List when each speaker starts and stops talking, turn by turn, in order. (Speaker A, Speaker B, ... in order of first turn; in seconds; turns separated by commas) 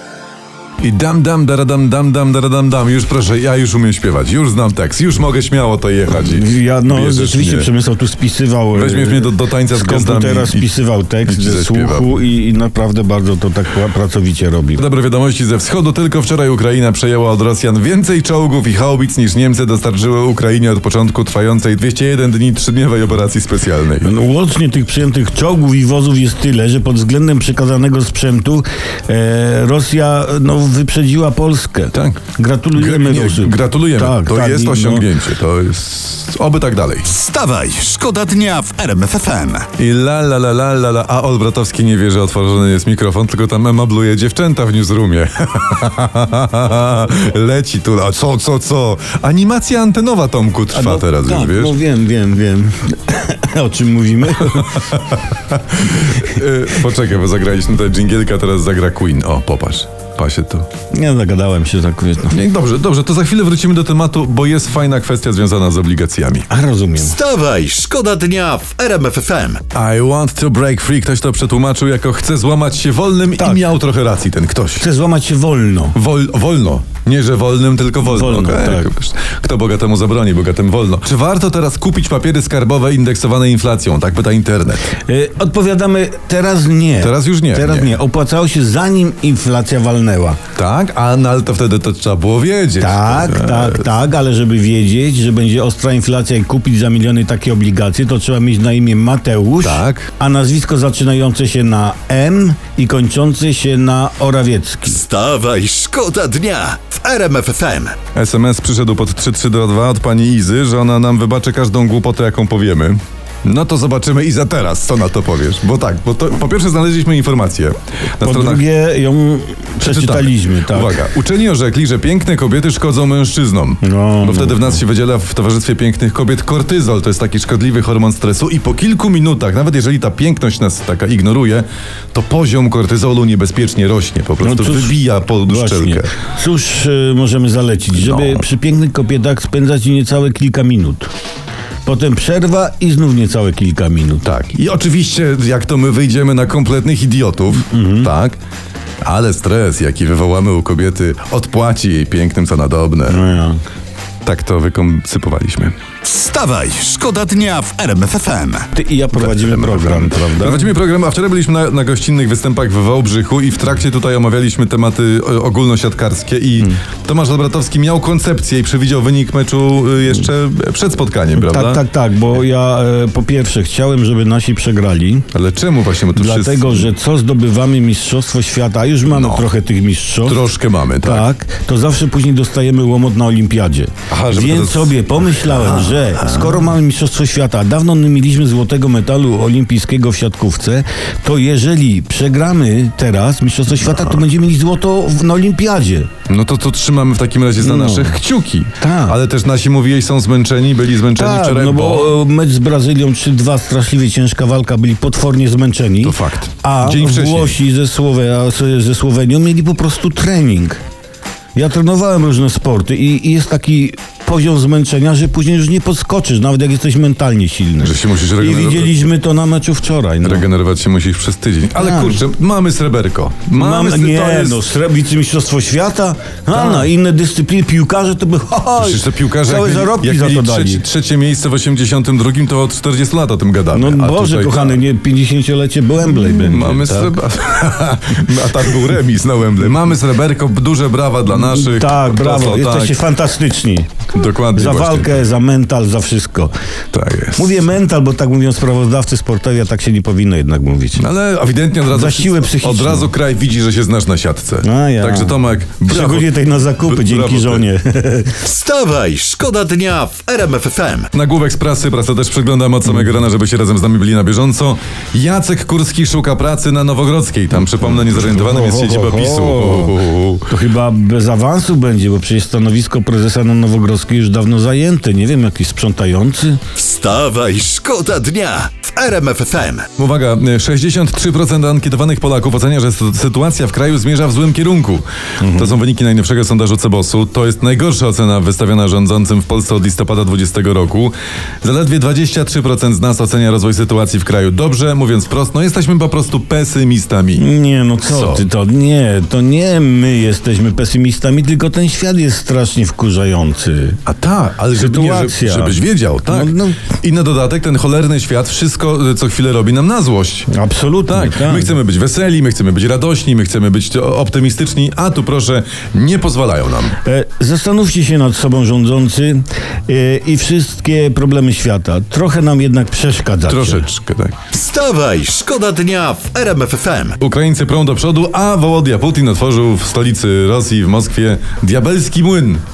Speaker A: 0.8-7.7, Speaker B: 6.1-14.8, Speaker A: 8.7-10.7, Speaker A: 11.3-12.1, Speaker A: 14.8-24.1, Speaker B: 24.0-35.1, Speaker A: 31.9-32.2, Speaker A: 32.7-37.1, Speaker C: 37.1-39.7, Speaker A: 39.8-51.7, Speaker B: 50.7-55.0, Speaker A: 54.6-60.7, Speaker B: 60.9-62.4, Speaker A: 62.3-66.5, Speaker B: 66.5-67.2, Speaker C: 67.0-69.7, Speaker A: 69.7-74.9, Speaker B: 73.4-73.7, Speaker B: 74.8-76.0, Speaker A: 76.0-84.9, Speaker B: 78.0-78.9, Speaker B: 85.1-90.4, Speaker A: 87.0-87.9, Speaker A: 90.6-93.9, Speaker B: 92.8-105.0, Speaker A: 99.6-100.1, Speaker C: 104.9-108.0, Speaker A: 108.1-118.7, Speaker B: 118.2-121.0, Speaker A: 119.8-136.1, Speaker B: 123.8-124.8, Speaker B: 134.4-141.1, Speaker A: 137.9-138.4, Speaker B: 141.8-144.3, Speaker A: 144.2-148.4, Speaker B: 147.7-148.1, Speaker A: 149.0-153.2, Speaker B: 153.1-153.6, Speaker A: 154.2-155.8, Speaker C: 156.0-158.7, Speaker B: 158.7-160.7, Speaker A: 159.1-171.8, Speaker B: 171.4-175.3, Speaker A: 175.3-176.9, Speaker B: 176.1-180.5, Speaker A: 179.1-179.5, Speaker A: 180.2-181.3, Speaker B: 181.0-196.1, Speaker A: 184.1-186.7, Speaker A: 196.3-202.1, Speaker B: 197.6-198.2, Speaker B: 198.8-199.2, Speaker B: 201.1-210.8, Speaker A: 206.0-207.6, Speaker B: 211.6-220.5, Speaker A: 217.8-219.1, Speaker A: 220.2-224.7, Speaker B: 221.8-222.2, Speaker B: 223.6-230.8, Speaker A: 226.5-226.9, Speaker A: 228.8-234.8, Speaker B: 233.7-237.1, Speaker A: 236.0-243.0, Speaker B: 241.3-243.9, Speaker A: 244.1-245.2, Speaker B: 244.5-246.5, Speaker A: 246.9-247.6, Speaker B: 247.4-251.1, Speaker A: 251.0-256.3, Speaker B: 251.9-253.1, Speaker B: 254.6-258.4, Speaker A: 256.8-257.7, Speaker C: 258.4-261.1, Speaker A: 261.1-270.5, Speaker B: 268.0-276.6, Speaker C: 276.8-279.9, Speaker A: 280.0-297.4, Speaker B: 285.4-285.8, Speaker B: 297.4-304.0, Speaker A: 298.1-298.4, Speaker A: 304.1-310.5, Speaker B: 304.7-306.9, Speaker B: 310.5-311.8, Speaker A: 311.1-316.9, Speaker B: 317.0-323.9, Speaker A: 323.5-324.4, Speaker C: 324.5-327.2, Speaker A: 327.2-332.6